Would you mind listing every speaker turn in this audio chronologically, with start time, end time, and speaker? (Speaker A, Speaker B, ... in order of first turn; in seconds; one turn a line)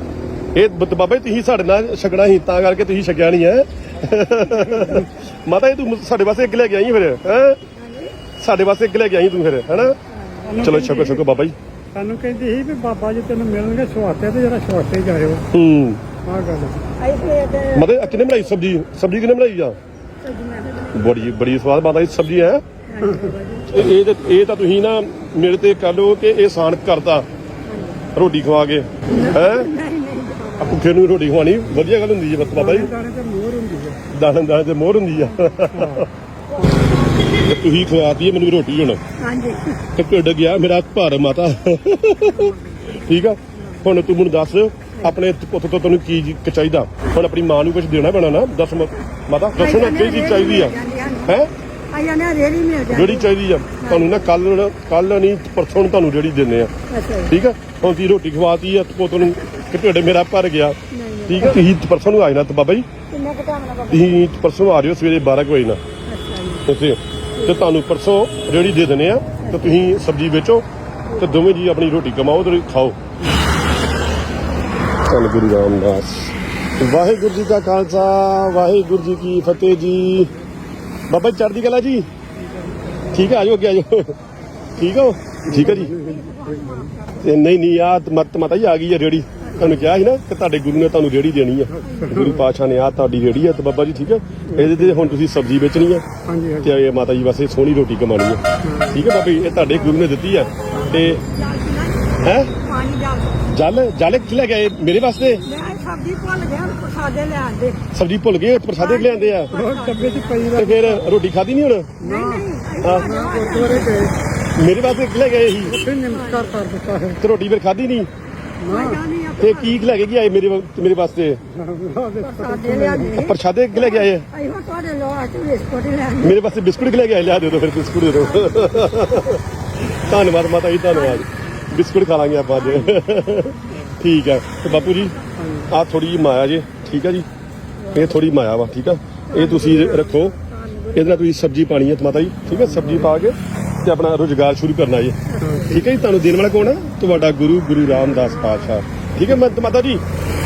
Speaker A: 0.5-7.6
Speaker B: 4.5-5.0
Speaker C: 7.8-8.2
Speaker A: 8.4-9.9
Speaker C: 10.1-10.7
Speaker B: 10.4-11.2
Speaker A: 10.6-11.5
Speaker B: 11.9-15.4
Speaker A: 15.5-16.0
Speaker B: 16.2-16.8
Speaker C: 17.0-18.5
Speaker A: 17.7-19.8
Speaker C: 20.2-21.2
Speaker A: 20.9-22.6
Speaker C: 22.9-23.9
Speaker B: 23.0-23.4
Speaker A: 23.7-27.2
Speaker C: 27.6-28.0
Speaker A: 28.1-29.7
Speaker C: 29.1-30.8
Speaker A: 30.6-32.9
Speaker B: 32.5-34.0
Speaker A: 34.1-36.1
Speaker B: 35.7-36.0
Speaker C: 36.5-37.2
Speaker A: 37.3-39.0
Speaker C: 39.2-39.8
Speaker A: 40.0-51.5
Speaker C: 42.3-42.5
Speaker C: 49.6-51.4
Speaker C: 51.9-54.2
Speaker A: 52.9-56.7
Speaker C: 56.9-57.3
Speaker A: 57.3-62.9
Speaker C: 60.9-61.6
Speaker C: 63.1-64.3
Speaker A: 63.9-65.8
Speaker C: 66.1-66.7
Speaker A: 66.7-70.6
Speaker C: 67.3-67.7
Speaker C: 69.4-69.8
Speaker A: 71.2-73.0
Speaker A: 75.0-80.3
Speaker A: 81.1-82.1
Speaker B: 82.4-82.7
Speaker A: 83.1-84.1
Speaker A: 84.7-85.9
Speaker B: 85.5-86.9
Speaker C: 85.5-87.3
Speaker A: 87.2-96.0
Speaker C: 89.4-89.8
Speaker B: 89.4-89.9
Speaker B: 91.7-92.5
Speaker C: 91.8-92.3
Speaker B: 94.5-95.2
Speaker B: 96.2-96.7
Speaker A: 96.6-101.2
Speaker B: 98.6-99.1
Speaker C: 100.5-103.5
Speaker B: 100.8-101.1
Speaker A: 102.2-102.5
Speaker A: 103.5-105.4
Speaker C: 105.4-107.8
Speaker A: 107.9-109.5
Speaker C: 108.8-110.7
Speaker B: 109.5-111.1
Speaker A: 110.5-111.9
Speaker B: 112.0-114.1
Speaker C: 112.0-114.0
Speaker A: 112.8-113.1
Speaker A: 114.6-115.8
Speaker B: 115.6-117.2
Speaker C: 116.1-116.6
Speaker A: 117.2-118.1
Speaker B: 118.6-119.0
Speaker C: 118.7-119.8
Speaker A: 119.4-121.4
Speaker B: 121.5-123.2
Speaker C: 122.2-126.3
Speaker A: 123.1-124.2
Speaker A: 126.2-135.1
Speaker C: 128.1-129.4
Speaker C: 130.9-131.2
Speaker C: 132.5-133.4
Speaker C: 134.6-135.3
Speaker B: 135.4-135.7
Speaker A: 135.7-137.2
Speaker C: 137.8-138.3
Speaker A: 137.9-140.3
Speaker C: 139.3-141.2
Speaker A: 140.9-150.0
Speaker B: 142.5-143.1
Speaker C: 145.2-145.8
Speaker B: 145.4-145.8
Speaker C: 148.1-148.8